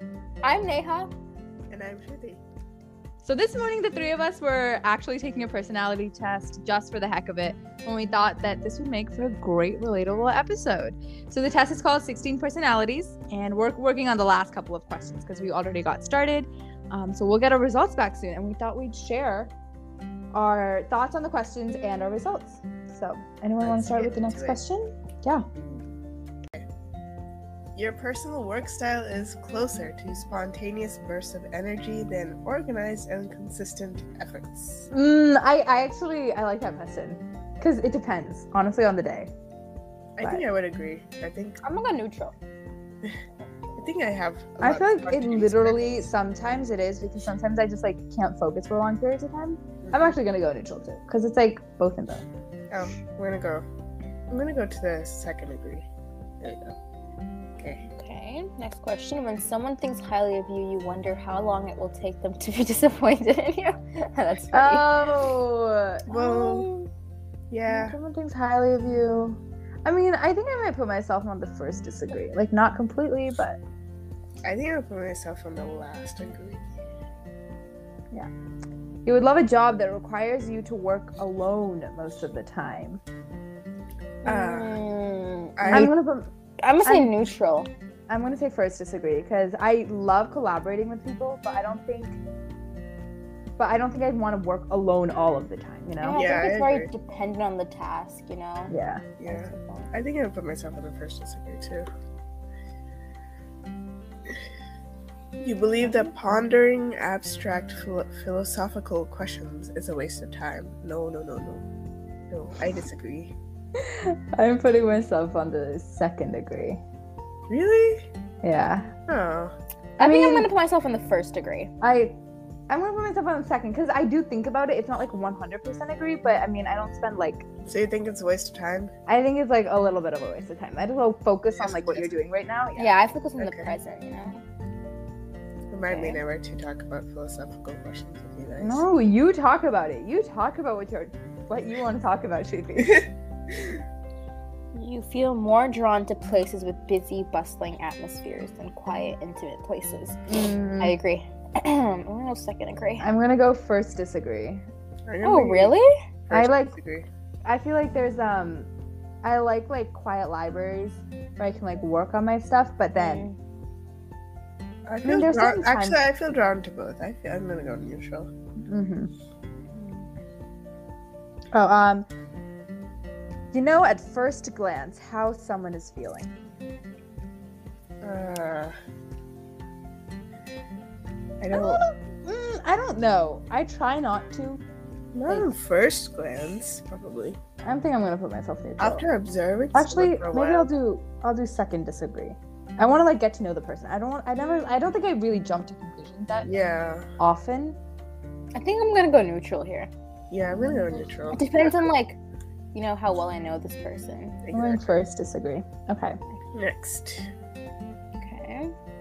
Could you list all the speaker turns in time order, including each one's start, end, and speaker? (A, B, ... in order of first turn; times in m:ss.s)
0:00.4-0:01.1 A
0:01.7-0:02.4 B
0:03.2-0:19.5 C
0:20.3-0:25.4 C
0:23.6-0:24.6 B
0:27.7-0:34.9 B
0:34.9-0:39.3 C
0:40.2-0:41.6 B
0:41.6-0:42.3 A
0:43.8-0:46.1 B
0:44.6-0:52.2 C
0:49.8-0:50.1 B
0:52.7-0:53.6 B
0:54.3-0:55.9 B
0:56.4-0:56.8 B
0:57.6-0:57.8 B
0:57.8-1:05.0 A
1:04.5-1:06.0 C
1:06.1-1:06.7 B
1:06.1-1:06.9 A
1:07.5-1:08.0 B
1:07.7-1:13.6 C
1:14.4-1:16.6 B
1:19.0-1:23.0 C
1:24.2-1:24.8 B
1:24.2-1:25.9 A
1:25.6-1:25.9 B
1:25.7-1:26.3 C
1:26.6-1:27.7 A
1:26.8-1:27.2 C
1:28.1-1:32.2 C
1:33.6-1:36.2 C
1:36.0-1:39.9 A
1:36.1-1:36.9 B
1:38.7-1:39.0 C
1:39.2-1:41.9 B
1:45.4-1:51.6 B
1:52.3-1:53.3 B
1:53.8-1:56.8 C
1:57.5-1:58.1 B
1:58.4-1:58.9 C
1:59.1-1:59.5 B
2:00.0-2:01.7 A
2:00.0-2:00.5 C
2:01.8-2:02.2 C
2:02.7-2:07.4 C
2:07.6-2:08.9 B
2:09.1-2:12.9 C
2:11.6-2:12.1 B
2:12.8-2:14.4 A
2:13.4-2:13.7 B
2:15.7-2:18.8 B
2:15.8-2:16.2 A
2:18.6-2:23.0 C
2:24.7-2:30.2 A
2:30.3-2:30.9 C
2:30.8-2:33.0 A
2:33.0-2:34.6 C
2:35.1-2:35.7 B
2:35.2-2:35.9 A
2:36.3-2:37.1 B
2:36.3-2:36.8 C
2:37.4-2:38.7 C
2:39.2-2:43.3 C
2:42.9-2:43.4 A
2:44.9-2:48.3 B
2:45.0-2:46.0 C
2:48.7-2:49.1 C
2:49.7-2:50.0 A
2:51.5-2:52.1 C
2:53.5-2:56.3 C
2:58.0-2:58.8 B
3:01.4-3:01.8 B
3:01.5-3:04.6 C
3:05.1-3:07.4 B
3:07.6-3:09.1 C
3:08.8-3:10.7 B
3:09.7-3:16.5 C
3:16.4-3:17.1 B
3:17.2-3:17.8 C
3:18.5-3:19.9 A
3:20.3-3:21.9 B
3:20.6-3:22.2 A
3:22.7-3:24.4 A
3:24.4-3:24.9 B
3:24.5-3:26.2 C
3:26.5-3:27.3 B
3:28.2-3:28.7 A